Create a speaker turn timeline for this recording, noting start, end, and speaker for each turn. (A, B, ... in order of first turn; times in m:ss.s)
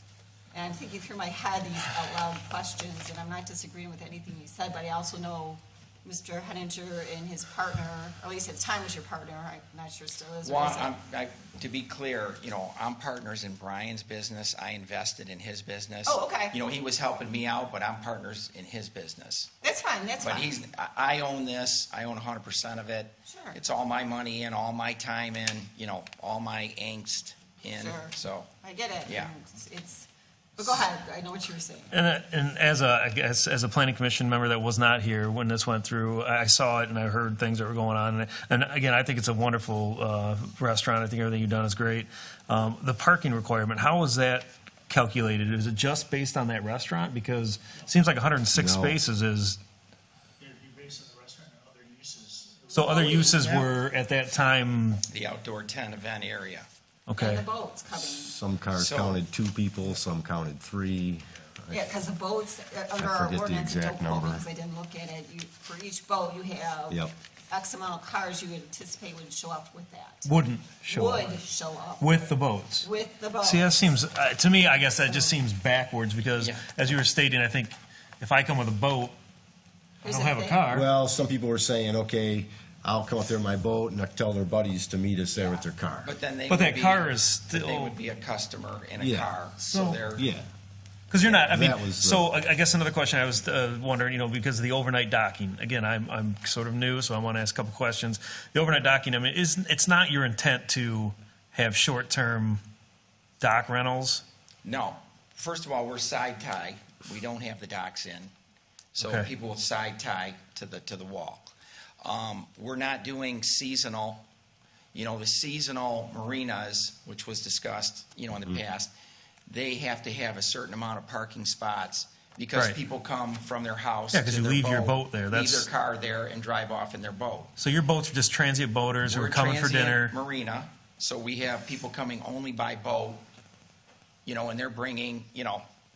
0:00.5-0:11.0 A
0:10.4-0:19.5 B
0:16.0-0:16.5 A
0:19.6-0:20.6 A
0:20.2-0:28.5 B
0:23.2-0:23.6 A
0:27.7-0:31.9 A
0:29.0-0:29.3 B
0:31.9-0:49.6 C
0:48.5-0:49.0 D
0:50.4-0:53.7 E
0:52.7-0:55.0 C
0:52.9-0:53.4 A
0:55.1-0:56.7 B
0:57.1-0:57.4 C
0:57.2-0:58.3 A
0:58.1-1:01.9 D
0:58.7-0:59.2 B
1:01.7-1:10.3 A
1:03.0-1:04.4 D
1:10.2-1:11.4 C
1:10.9-1:13.8 A
1:12.0-1:12.8 C
1:13.4-1:19.2 C
1:16.4-1:16.6 B
1:20.0-1:20.7 A
1:20.0-1:20.9 C
1:20.7-1:26.1 D
1:26.0-1:30.3 B
1:26.5-1:28.0 C
1:29.0-1:29.3 D
1:29.6-1:30.0 C
1:30.1-1:30.5 D
1:31.1-1:42.6 C
1:31.2-1:32.3 D
1:43.4-1:44.2 C
1:44.6-1:48.3 B
1:48.9-1:54.2 B
1:49.0-1:49.3 C
1:54.9-1:58.9 B
1:59.5-2:07.5 B
2:02.5-2:02.8 C
2:04.1-2:05.7 C
2:07.6-2:10.2 C
2:09.0-2:13.2 B
2:14.2-2:15.6 B